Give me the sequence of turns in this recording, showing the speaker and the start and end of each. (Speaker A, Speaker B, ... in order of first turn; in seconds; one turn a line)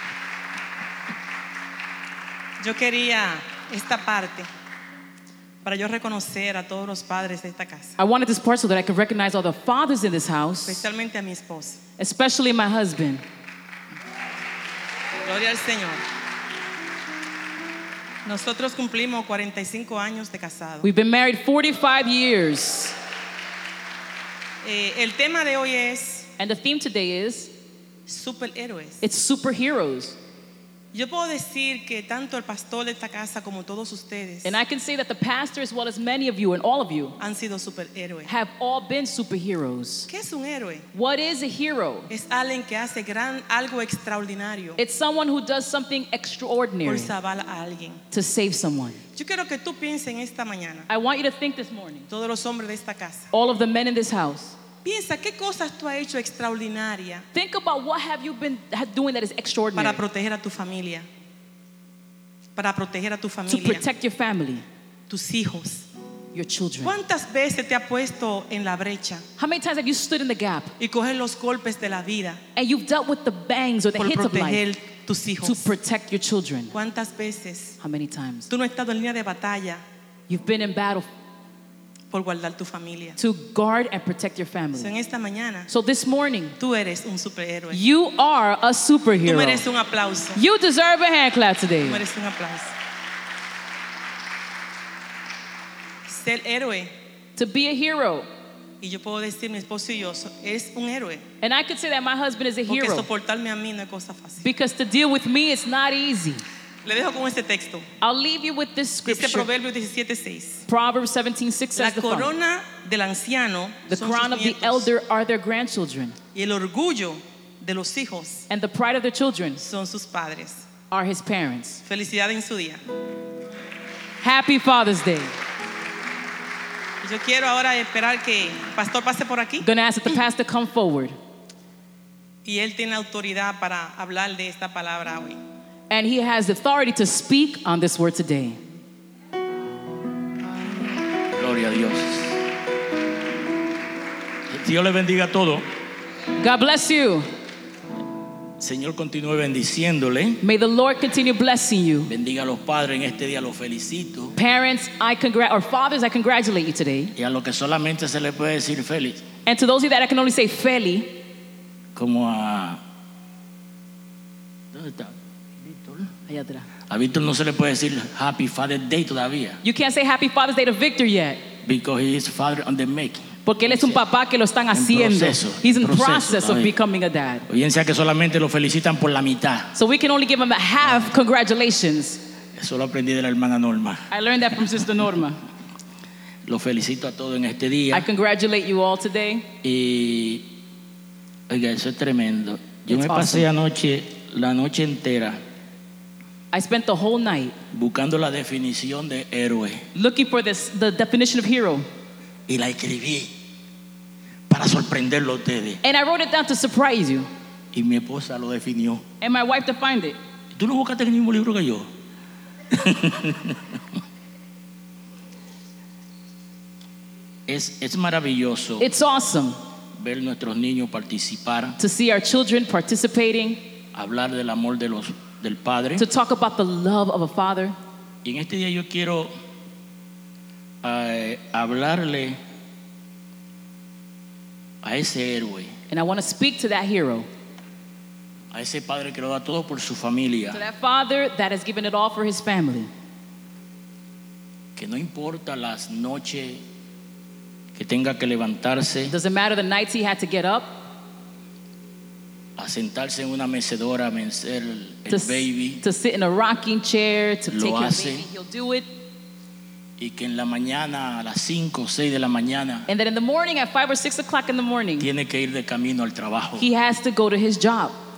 Speaker A: 2.6-4.5
Speaker A: 5.6-8.0
Speaker B: 8.0-10.8
Speaker A: 10.7-11.8
Speaker B: 12.0-13.2
Speaker A: 15.2-16.0
Speaker A: 18.2-20.9
Speaker B: 20.8-23.0
Speaker A: 24.6-26.3
Speaker B: 26.4-27.5
Speaker A: 28.1-29.0
Speaker B: 29.0-30.2
Speaker A: 30.9-34.6
Speaker B: 34.5-37.2
Speaker A: 37.2-38.3
Speaker B: 38.3-40.1
Speaker A: 40.1-40.9
Speaker B: 40.9-42.1
Speaker A: 42.1-44.8
Speaker B: 44.8-47.1
Speaker A: 46.9-48.0
Speaker B: 48.1-49.0
Speaker A: 49.1-50.9
Speaker B: 50.9-52.1
Speaker A: 52.1-53.3
Speaker B: 53.3-54.5
Speaker A: 54.8-57.3
Speaker B: 57.3-60.0
Speaker A: 59.8-61.1
Speaker A: 62.6-63.9
Speaker B: 63.5-64.7
Speaker A: 65.1-65.9
Speaker B: 66.3-67.0
Speaker A: 66.8-69.2
Speaker B: 69.4-70.7
Speaker A: 70.8-72.4
Speaker B: 72.6-74.6
Speaker A: 74.0-75.7
Speaker B: 75.4-76.7
Speaker A: 76.7-77.8
Speaker B: 77.8-78.5
Speaker A: 78.5-79.8
Speaker B: 80.3-81.1
Speaker A: 82.1-83.2
Speaker B: 83.2-84.9
Speaker A: 84.8-85.7
Speaker B: 85.7-86.6
Speaker A: 86.6-87.8
Speaker B: 87.7-89.6
Speaker A: 89.2-90.4
Speaker B: 90.4-92.0
Speaker A: 91.8-92.7
Speaker A: 96.1-96.9
Speaker B: 97.4-98.3
Speaker A: 98.8-101.2
Speaker B: 101.4-103.1
Speaker A: 102.7-104.4
Speaker B: 104.4-106.5
Speaker A: 106.8-107.9
Speaker B: 108.0-109.5
Speaker A: 109.1-110.7
Speaker B: 110.7-112.3
Speaker A: 111.8-114.9
Speaker B: 113.9-116.2
Speaker A: 116.3-118.5
Speaker B: 118.5-119.6
Speaker A: 119.6-120.7
Speaker B: 120.9-121.8
Speaker A: 121.9-122.8
Speaker B: 124.2-125.3
Speaker A: 127.0-129.7
Speaker B: 129.6-131.2
Speaker A: 132.4-135.4
Speaker B: 135.9-138.6
Speaker C: 141.3-142.4
Speaker C: 144.5-145.6
Speaker B: 146.4-147.3
Speaker C: 148.6-150.4
Speaker B: 150.4-152.1
Speaker C: 152.1-154.3
Speaker B: 154.4-157.1
Speaker C: 157.2-159.2
Speaker B: 159.5-161.2
Speaker C: 161.9-162.8
Speaker C: 164.7-166.1
Speaker B: 166.3-166.7
Speaker C: 166.9-169.6
Speaker B: 169.6-171.4
Speaker C: 171.6-174.0
Speaker B: 173.5-177.5
Speaker C: 174.7-176.7
Speaker C: 177.5-179.7
Speaker B: 179.7-182.2
Speaker C: 182.6-184.1
Speaker B: 184.1-185.4
Speaker C: 186.4-188.1
Speaker B: 187.9-189.5
Speaker C: 189.6-190.5
Speaker C: 191.5-195.4
Speaker B: 192.9-193.5
Speaker B: 196.5-197.6
Speaker C: 197.7-199.8
Speaker B: 199.9-201.9
Speaker C: 202.5-203.3
Speaker C: 204.5-205.8
Speaker B: 205.8-207.3
Speaker C: 207.7-209.0
Speaker B: 209.2-210.2
Speaker C: 210.5-211.9
Speaker C: 212.7-213.8
Speaker C: 217.5-218.8
Speaker B: 218.8-219.6
Speaker C: 220.0-221.8
Speaker B: 221.8-223.6
Speaker C: 223.9-226.1
Speaker B: 226.0-227.8
Speaker C: 228.2-229.3
Speaker C: 230.8-232.4
Speaker C: 234.8-235.7
Speaker B: 235.9-237.3
Speaker C: 238.5-240.6
Speaker B: 240.5-242.9
Speaker C: 244.8-246.6
Speaker C: 247.8-249.1
Speaker B: 249.1-250.8
Speaker C: 252.6-255.8
Speaker B: 255.1-258.9
Speaker C: 257.5-258.3
Speaker C: 260.0-262.9
Speaker B: 262.9-265.1
Speaker C: 265.0-266.7
Speaker B: 266.6-268.0